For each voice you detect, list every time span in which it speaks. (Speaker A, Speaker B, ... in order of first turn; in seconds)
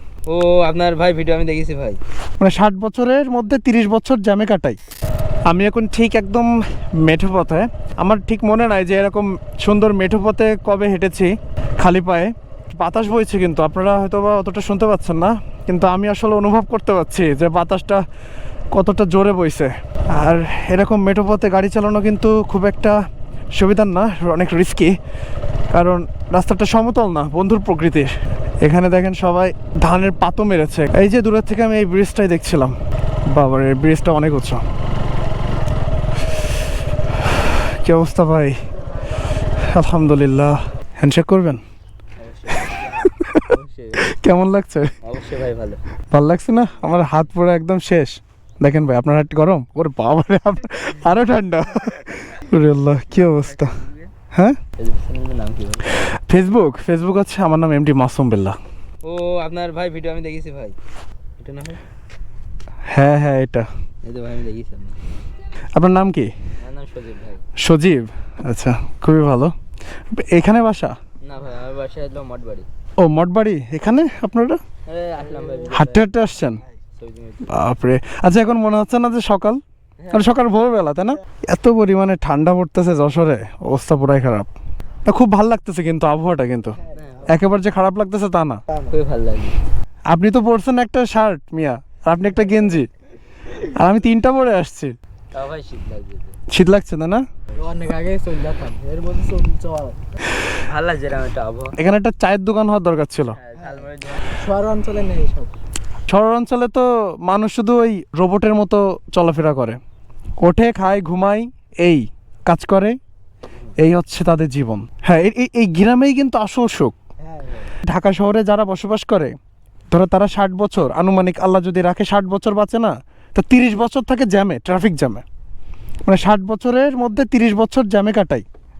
Speaker A: 0.3-2.0, 42.2-44.1, 45.0-45.8, 53.1-54.1, 54.8-55.9, 59.0-60.8, 61.4-61.8, 64.0-65.0, 66.6-67.5, 71.2-72.7, 74.9-76.1, 77.0-77.6, 80.0-80.3, 86.9-87.4, 88.8-89.6, 95.3-96.4, 97.5-97.8, 100.5-101.8, 103.3-104.5
Speaker B: 2.4-4.8, 5.5-18.0, 18.7-22.9, 23.6-24.9, 25.7-28.1, 28.6-32.8, 33.3-34.6, 37.3-38.6, 39.4-41.6, 42.8-45.0, 46.1-53.7, 54.3-54.6, 56.1-58.6, 62.9-63.7, 65.8-66.3, 67.6-69.5, 70.1-70.9, 73.0-74.6, 75.7-76.6, 77.5-79.6, 80.1-84.5, 85.1-88.6, 90.1-92.9, 93.5-94.9, 96.5-97.2, 101.8-103.4, 106.1-109.8, 110.4-113.0, 113.8-116.9, 117.8-119.3, 119.9-125.2, 126.0-128.4
Speaker C: 97.6-100.0, 104.2-105.5, 117.2-117.6